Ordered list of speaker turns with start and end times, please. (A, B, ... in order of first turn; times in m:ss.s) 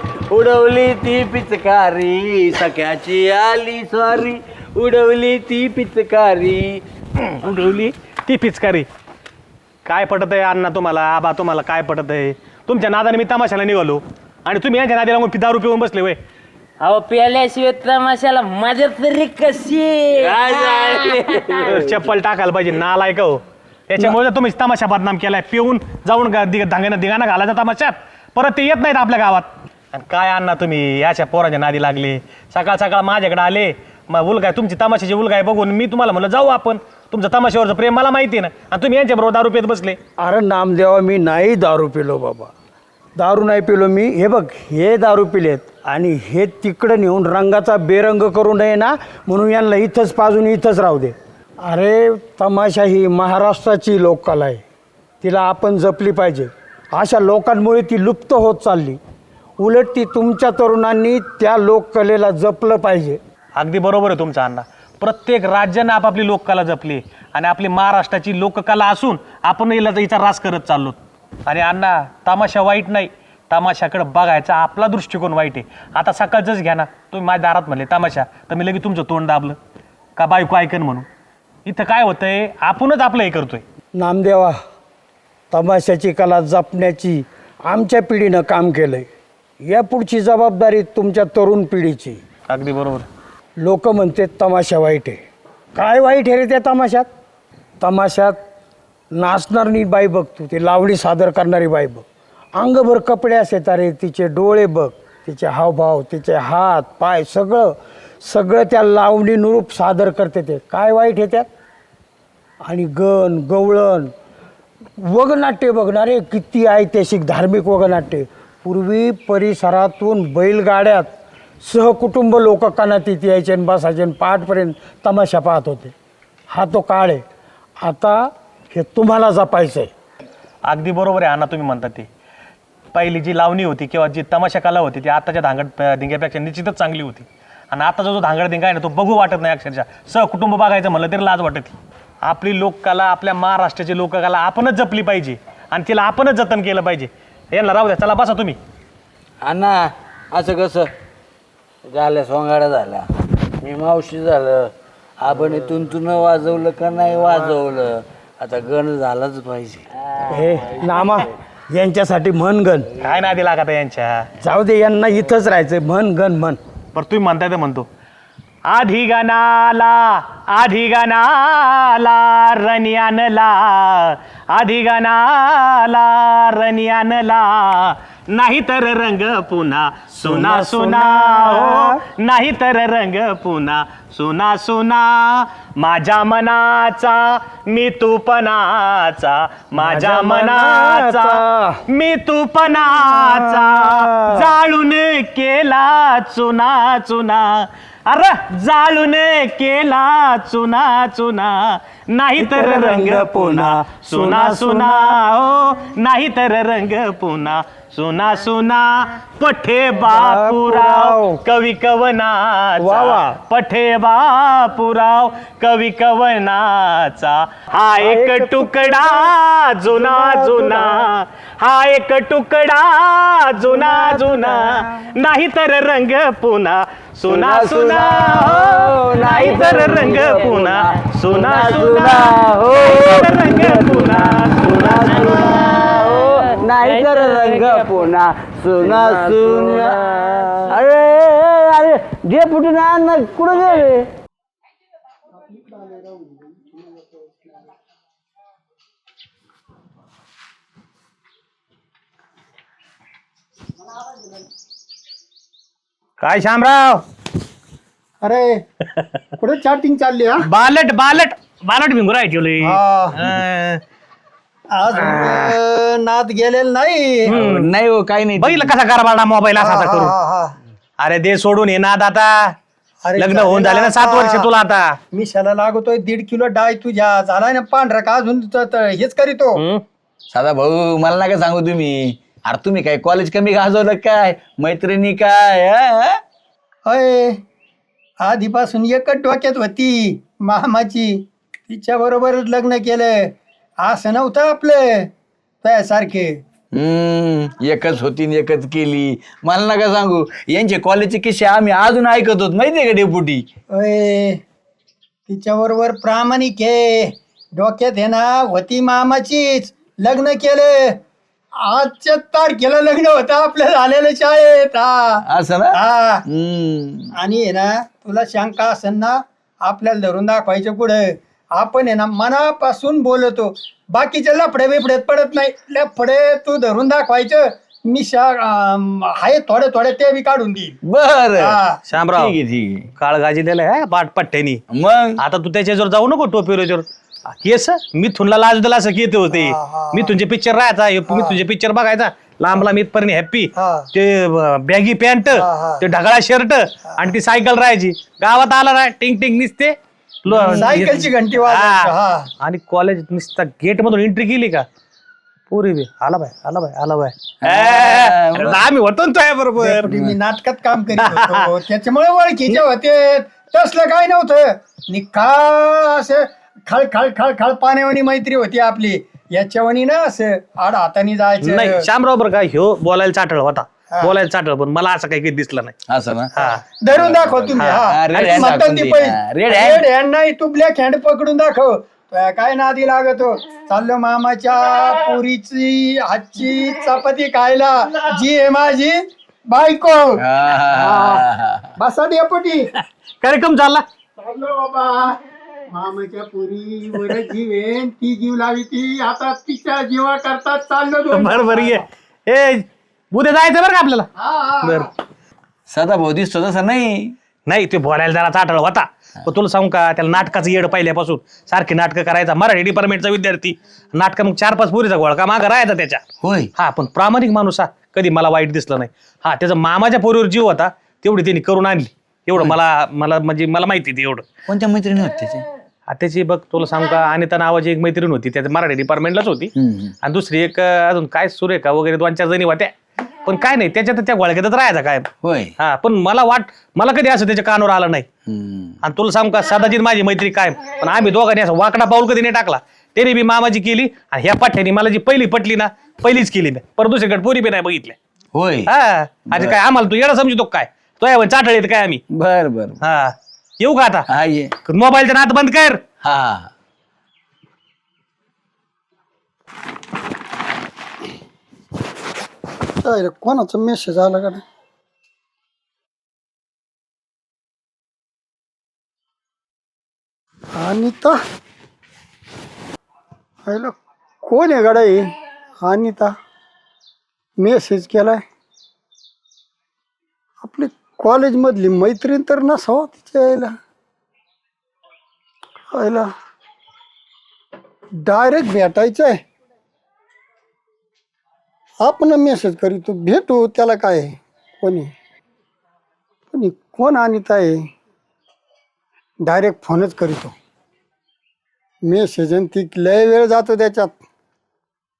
0:00.3-0:06.8 A
0:07.2-0:08.9 B
0:09.8-0:16.2 B
0:16.8-0:22.0 C
0:20.2-0:21.7 A
0:21.6-0:40.0 B
0:40.2-0:42.5 D
0:43.2-0:54.6 D
0:55.2-0:59.0 D
0:59.6-1:03.2 D
1:03.6-1:11.0 B
1:11.5-1:19.6 B
1:20.2-1:21.1 B
1:21.6-1:23.6 B
1:23.9-1:24.6 D
1:25.5-1:29.1 D
1:29.6-1:32.2 D
1:32.5-1:33.0 B
1:33.6-1:35.2 D
1:35.7-1:37.1 D
1:37.8-1:38.4 D
1:39.1-1:51.5 D
1:52.6-1:54.1 D
1:55.0-2:05.9 D
2:06.5-2:07.2 D
2:07.8-2:09.9 D
2:10.7-2:12.1 B
2:12.9-2:28.6 B
2:29.4-2:30.9 A
2:31.9-2:33.1 A
2:33.6-2:39.9 A
2:40.3-2:42.9 D
2:43.0-2:44.3 B
2:44.4-2:46.6 D
2:46.9-2:47.9 B
2:48.7-3:55.8 B
3:00.2-3:02.0 D
3:09.8-3:11.8 D
3:12.8-3:14.6 D
3:22.4-3:25.2 D
3:30.0-3:31.4 D
3:32.8-3:33.4 D
3:38.0-3:39.3 D
3:39.9-3:41.1 D
3:43.6-3:45.0 D
3:47.3-4:04.1 A
3:49.3-3:50.4 C
3:55.0-3:58.1 C
3:58.8-4:00.8 C
4:16.2-4:17.0 B
4:18.2-4:18.6 E
4:19.4-4:20.4 E
4:20.4-4:23.8 B
4:22.6-4:23.4 E
4:24.7-4:27.4 E
4:25.2-4:25.5 D
4:27.3-4:27.7 B
4:27.3-4:28.7 A
4:28.4-4:30.1 B
4:29.6-4:30.6 E
4:31.0-4:32.5 B
4:33.0-4:34.5 E
4:33.2-4:35.0 B
4:35.1-4:39.6 E
4:39.6-4:39.8 B
4:40.3-4:46.2 A
4:46.8-4:47.4 E
4:48.2-4:55.1 E
4:55.6-4:56.4 E
4:56.7-5:03.4 A
5:03.7-5:04.4 E
5:05.3-5:11.0 E
5:11.6-5:16.2 E
5:15.2-5:17.1 A
5:17.2-5:30.8 E
5:30.8-5:31.6 A
5:31.4-5:31.8 E
5:31.9-5:32.4 B
5:32.1-5:32.9 A
5:33.0-5:34.6 B
5:34.7-5:35.2 A
5:35.2-5:36.8 B
5:37.4-5:49.7 B
5:39.3-5:40.1 E
5:41.1-5:41.4 E
5:43.6-5:43.8 E
5:45.3-5:45.8 E
5:50.2-5:54.6 B
5:50.3-5:52.3 E
5:55.5-5:59.8 B
5:57.4-5:58.6 A
5:59.6-6:11.8 E
6:01.0-6:01.5 B
6:11.4-6:15.8 B
6:15.9-6:16.4 A
6:16.3-6:16.6 B
6:16.4-6:31.2 E
6:16.9-6:19.8 A
6:17.6-6:18.4 B
6:30.2-6:31.7 A
6:31.8-6:32.7 E
6:33.2-6:33.8 B
6:34.2-6:35.2 E
6:35.7-6:41.8 E
6:41.1-6:44.1 B
6:44.2-6:44.9 E
6:44.6-6:44.9 B
6:45.7-6:47.1 A
6:47.5-6:56.0 B
6:56.2-6:56.5 A
6:56.6-7:04.3 B
7:04.5-7:05.4 A
7:05.9-7:09.5 B
7:09.6-7:09.9 A
7:10.0-7:12.7 B
7:13.2-7:18.1 B
7:15.2-7:15.5 A
7:18.3-7:18.7 A
7:18.8-7:28.0 B
7:28.3-7:28.7 A
7:28.7-7:32.0 B
7:29.3-7:29.6 A
7:32.1-7:32.8 A
7:32.8-7:34.0 B
7:34.1-7:34.5 A
7:34.7-7:35.8 B
7:36.0-7:36.5 A
7:42.8-7:44.4 E
7:50.5-7:51.2 E
7:53.4-7:56.1 E
7:57.4-7:58.2 E
8:00.4-8:03.5 E
8:05.7-8:06.1 E
8:08.0-8:09.2 E
8:11.8-8:14.9 E
8:16.3-8:17.7 E
8:19.2-8:20.3 E
8:21.8-8:24.0 E